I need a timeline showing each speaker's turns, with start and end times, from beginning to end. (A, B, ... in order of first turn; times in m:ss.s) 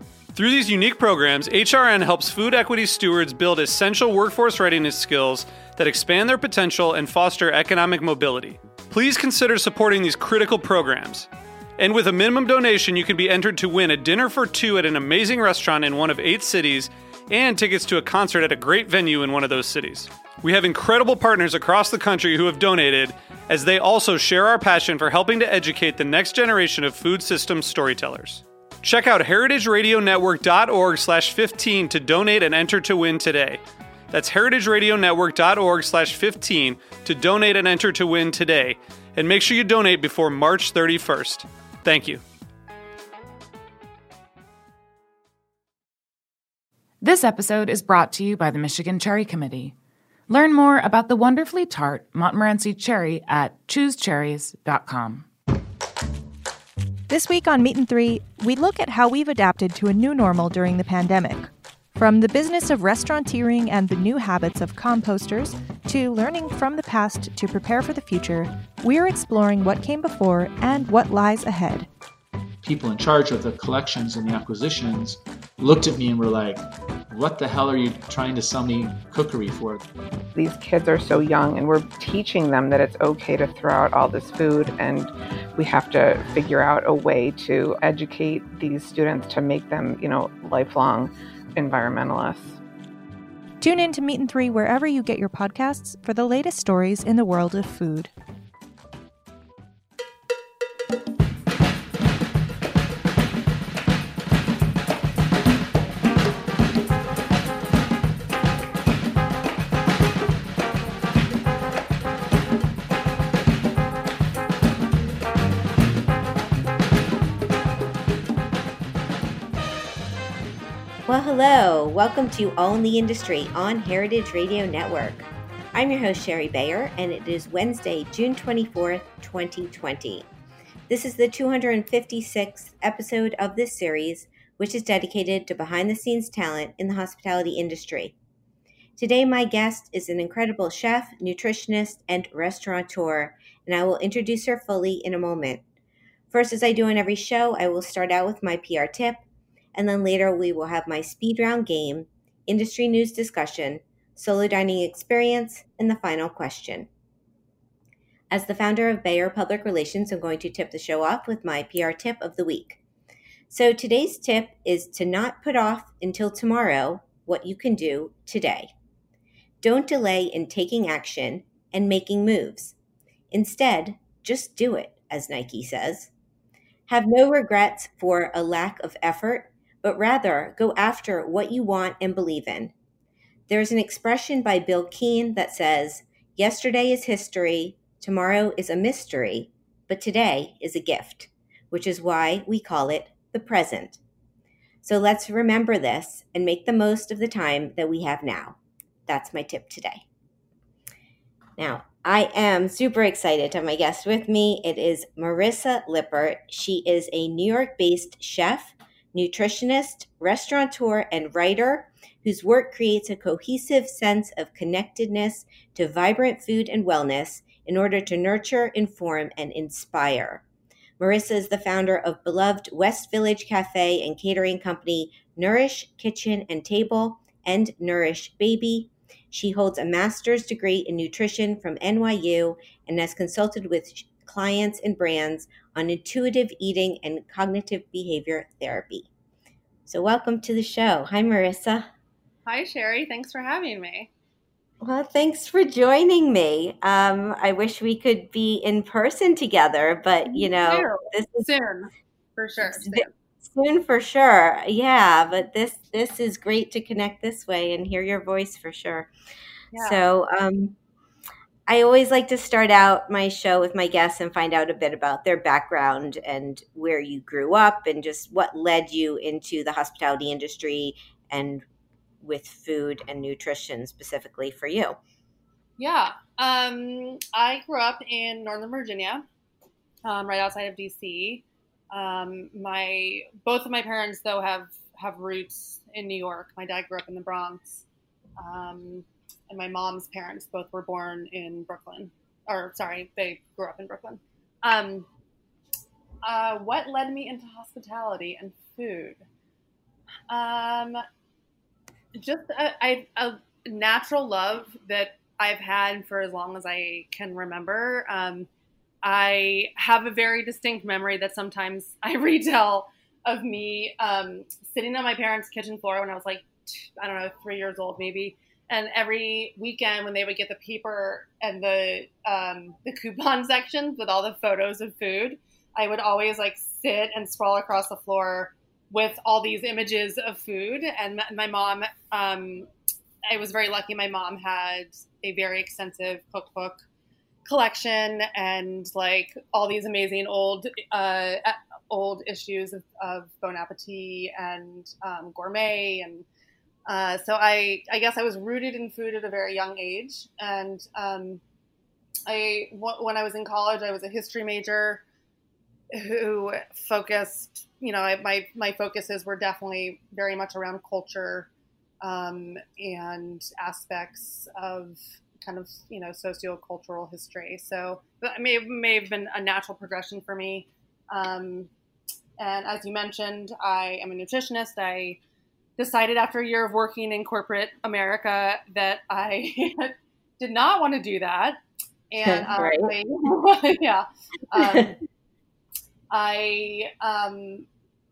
0:00.4-0:42.2 A
0:47.0-0:49.8 B
0:50.3-0:55.3 B
0:57.1-1:11.9 C
1:12.6-1:19.9 D
1:20.4-1:32.6 E
1:33.6-1:38.1 C
2:01.1-2:10.3 F
2:10.9-2:18.2 F
2:19.0-2:25.6 F
2:26.3-2:29.2 F
2:29.7-2:36.9 F
2:38.3-2:42.8 F
2:43.5-2:48.7 F
2:49.6-2:52.8 F
2:53.3-2:56.1 F
2:56.9-3:02.7 F
3:03.5-3:14.0 F
3:14.8-3:20.0 F
3:21.6-3:40.4 F
3:41.0-3:59.1 F
3:59.9-4:01.9 F
4:02.5-4:04.1 G
4:04.8-4:11.5 F
4:10.3-4:13.1 G
4:12.6-4:19.1 F
4:19.7-4:20.0 G
4:19.8-4:20.8 F
4:21.7-4:31.7 F
4:32.2-4:35.0 F
4:35.8-4:39.3 G
4:40.0-4:47.8 G
4:48.4-4:55.1 G
4:56.2-4:59.2 G
5:00.3-5:01.0 G
5:02.2-5:08.5 G
5:09.0-5:32.7 G
5:33.3-5:36.8 G
5:37.4-5:46.2 G
5:46.9-5:51.4 G
5:52.3-5:55.0 G
5:55.9-6:01.5 G
6:02.0-6:11.7 G
6:12.4-6:15.2 G
6:15.8-6:21.6 G
6:22.1-6:25.0 G
6:22.2-6:22.9 F
6:24.5-6:24.9 F
6:26.1-6:27.7 G